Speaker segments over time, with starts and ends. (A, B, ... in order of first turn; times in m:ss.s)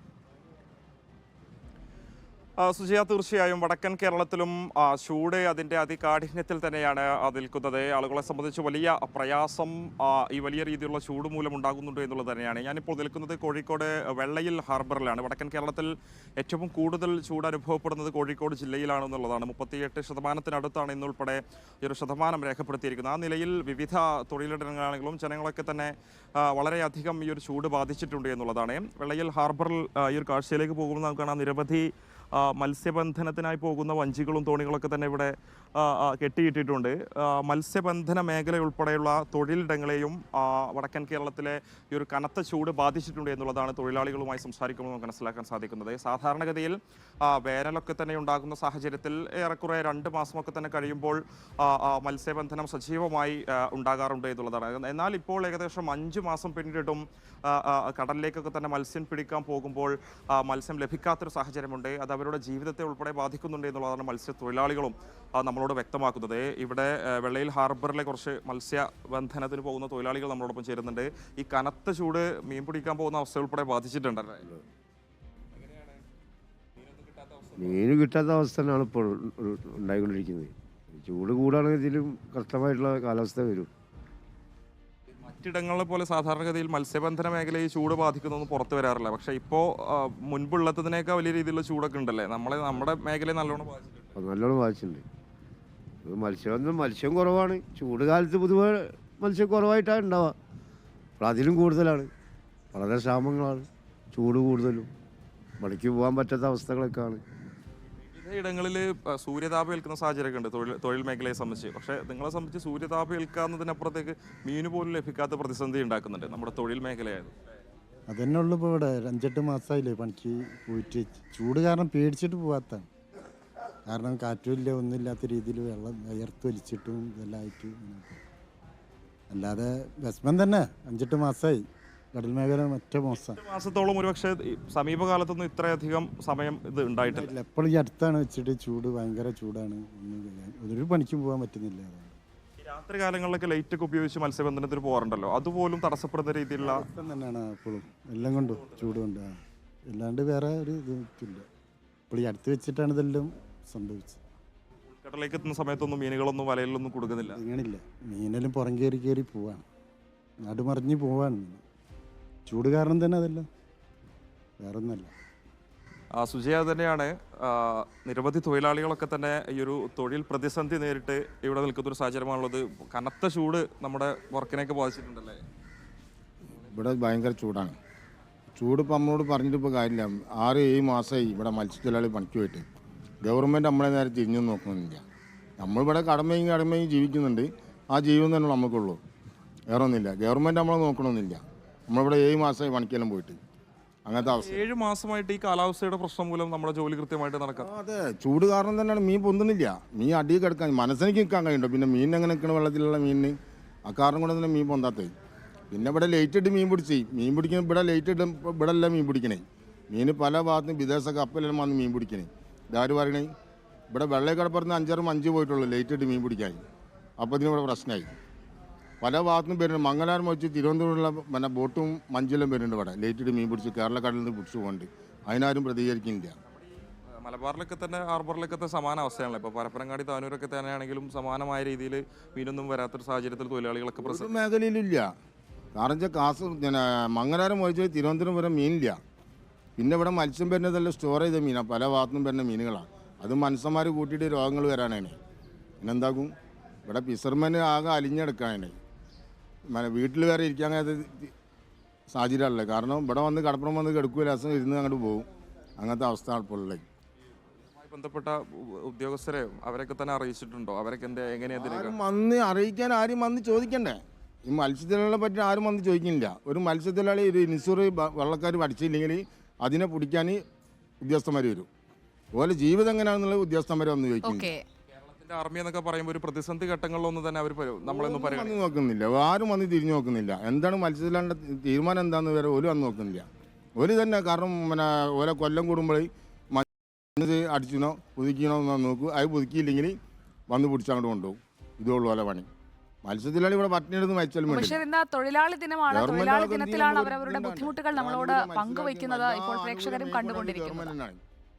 0:02.6-1:14.4 A
1:16.8-1:17.8 A
1:17.6-1:23.7 B
1:25.2-1:34.0 A
1:34.2-1:35.0 B
1:36.0-1:40.4 B
1:41.2-1:42.1 B
1:42.7-1:44.9 B
1:45.6-1:47.2 B
1:48.1-1:57.3 A
1:58.1-2:02.9 C
2:03.9-2:08.2 C
2:09.3-2:13.4 C
2:13.1-2:17.3 A
2:17.0-2:22.2 C
2:22.6-2:26.8 A
2:26.6-2:31.5 C
2:32.1-2:34.2 C
2:35.0-2:37.4 A
2:37.2-2:39.6 C
2:40.4-2:41.6 C
2:42.4-2:43.4 C
2:44.6-2:45.1 C
2:46.2-2:55.4 A
2:56.6-2:57.8 D
2:58.6-3:02.6 D
3:03.2-3:05.0 D
3:05.6-3:09.0 D
3:09.7-3:13.4 D
3:14.0-3:14.6 D
3:14.2-3:17.7 A
3:17.6-3:23.3 D
3:23.8-3:25.1 D
3:25.7-3:33.3 D
3:33.9-3:36.6 D
3:37.2-3:38.1 D
3:39.0-3:46.3 D
3:47.2-3:54.4 A
3:54.0-3:55.1 D
3:55.7-3:59.0 D
3:59.8-4:05.2 D
4:05.8-4:06.3 D
4:06.8-4:08.8 D
4:09.7-4:11.3 D
4:12.1-4:15.3 D
4:15.8-4:16.8 D
4:17.8-4:22.0 A
4:21.5-4:30.4 D
4:31.0-4:31.7 D
4:32.3-4:34.5 D
4:34.2-4:34.6 E
4:35.0-4:38.6 A
4:37.8-4:50.0 D
4:50.5-4:52.5 D
4:53.0-4:54.8 D
4:54.5-5:00.9 E
4:55.9-5:01.2 D